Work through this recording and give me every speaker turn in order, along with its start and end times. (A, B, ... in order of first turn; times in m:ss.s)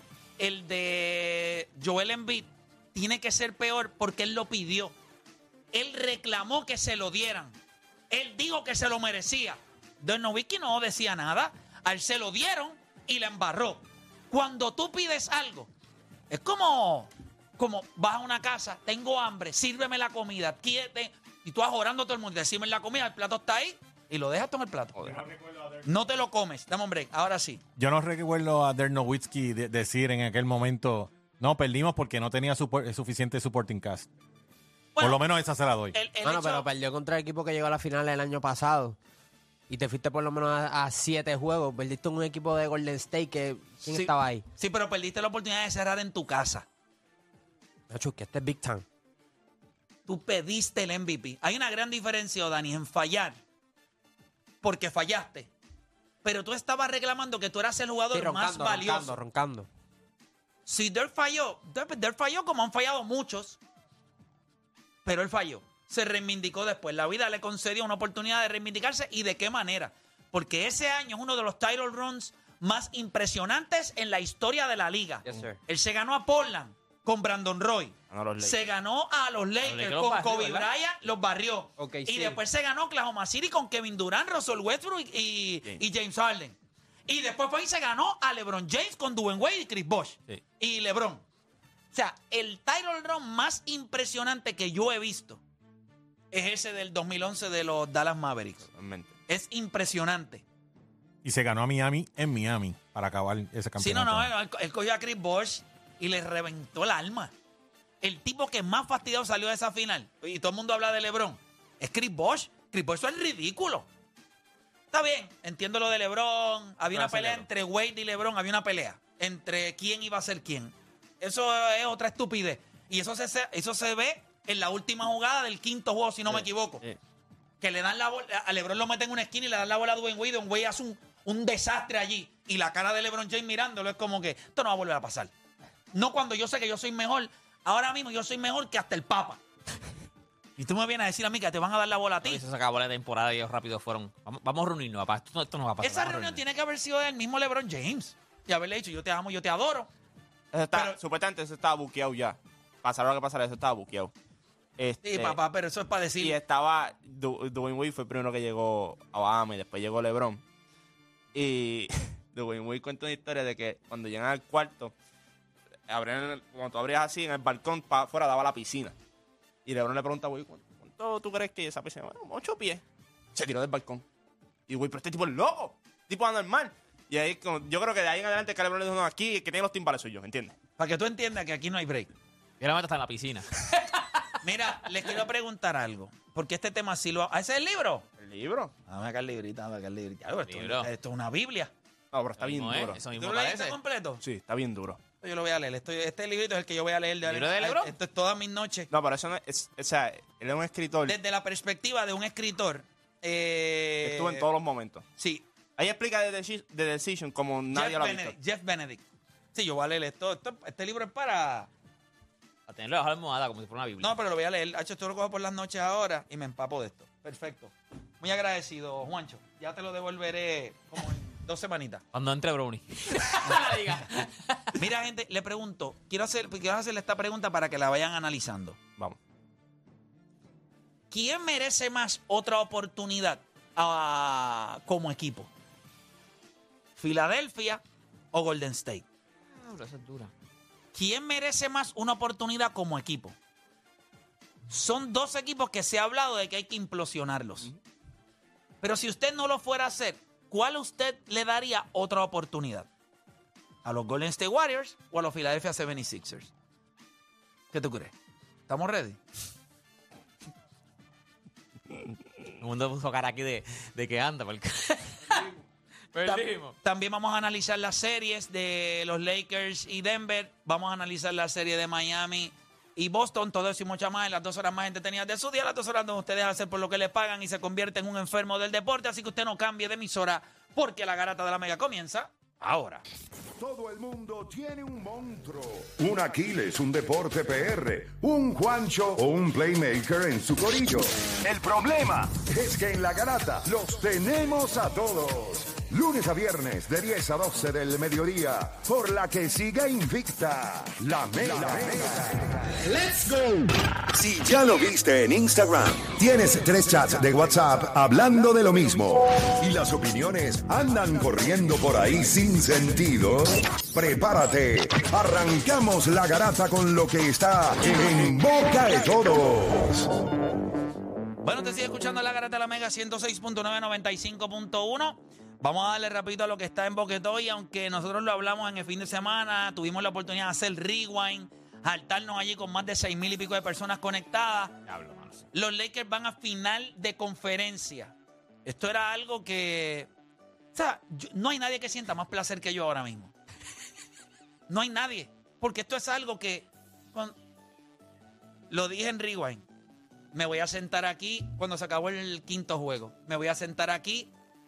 0:00.4-0:05.0 A
0:05.7-0:07.6 A
0:08.1-0:15.7 A
0:16.3-0:25.0 A
0:25.0-0:25.2 B
0:25.0-0:25.9 C
0:25.9-0:27.6 A
0:27.8-0:34.1 C
0:35.0-0:35.2 A
0:35.0-0:36.0 C
0:35.9-0:36.7 A
0:36.2-0:39.0 D
0:39.7-0:44.4 D
0:43.9-0:46.7 A
0:47.9-0:48.8 D
0:50.1-0:53.4 A
0:54.6-0:55.5 A
0:56.2-0:59.2 A
0:58.1-0:59.7 D
1:00.7-1:03.6 A
1:05.0-1:31.2 A
1:15.3-1:15.6 D
1:18.1-1:18.6 B
1:19.6-1:20.7 E
1:21.8-1:22.4 D
1:31.9-1:35.4 A
1:36.3-1:38.6 A
1:38.7-1:39.1 B
1:39.3-1:40.4 A
1:41.2-1:44.3 C
1:43.8-1:47.3 A
1:48.0-1:53.9 A
1:54.9-2:06.8 A
1:56.9-1:57.5 E
2:06.3-2:07.0 B
2:07.6-2:15.3 A
2:15.9-2:19.4 A
2:20.6-2:22.4 A
2:22.2-2:26.4 E
2:25.8-2:29.9 A
2:30.5-2:34.1 B
2:30.7-2:31.0 A
2:34.8-2:35.4 B
2:35.0-2:36.4 A
2:36.2-2:40.4 B
2:41.3-2:44.9 B
2:45.9-2:49.0 B
2:49.7-2:52.8 B
2:53.4-2:54.0 B
2:54.7-3:00.5 B
3:00.8-3:02.1 A
3:02.6-3:04.4 E
3:04.4-3:08.0 A
3:08.2-3:08.7 B
3:08.9-3:11.7 A
3:10.5-3:10.9 E
3:12.1-3:13.0 B
3:12.4-3:13.8 E
3:13.2-3:14.2 A
3:14.2-3:15.0 B
3:15.2-3:18.9 A
3:17.3-3:17.9 E
3:18.9-3:21.2 B
3:21.1-3:24.4 A
3:24.0-3:25.1 B
3:25.2-3:25.4 A
3:25.8-3:28.4 B
3:27.7-3:29.0 A
3:29.5-3:31.7 A
3:32.7-3:34.2 E
3:34.0-3:42.0 A
3:42.1-3:44.8 E
3:44.8-3:48.8 A
3:51.1-3:55.5 A
3:57.0-3:57.8 A
3:58.3-3:59.0 A
3:59.6-4:00.3 E
4:00.9-4:03.4 A
4:04.7-4:07.7 A
4:08.8-4:12.9 A
4:13.8-4:16.5 A
4:17.7-4:18.1 A
4:18.7-4:19.2 A
4:22.6-4:25.6 E
4:26.1-4:26.7 E
4:26.2-4:43.0 A
4:43.6-5:03.5 F
5:04.1-5:20.0 F
5:21.4-5:34.8 A
5:34.9-5:35.5 E
5:35.5-5:38.1 A
5:38.6-5:40.1 A
5:40.8-5:43.3 A
5:44.7-5:47.4 A
5:48.7-5:49.6 A
5:50.3-5:54.3 A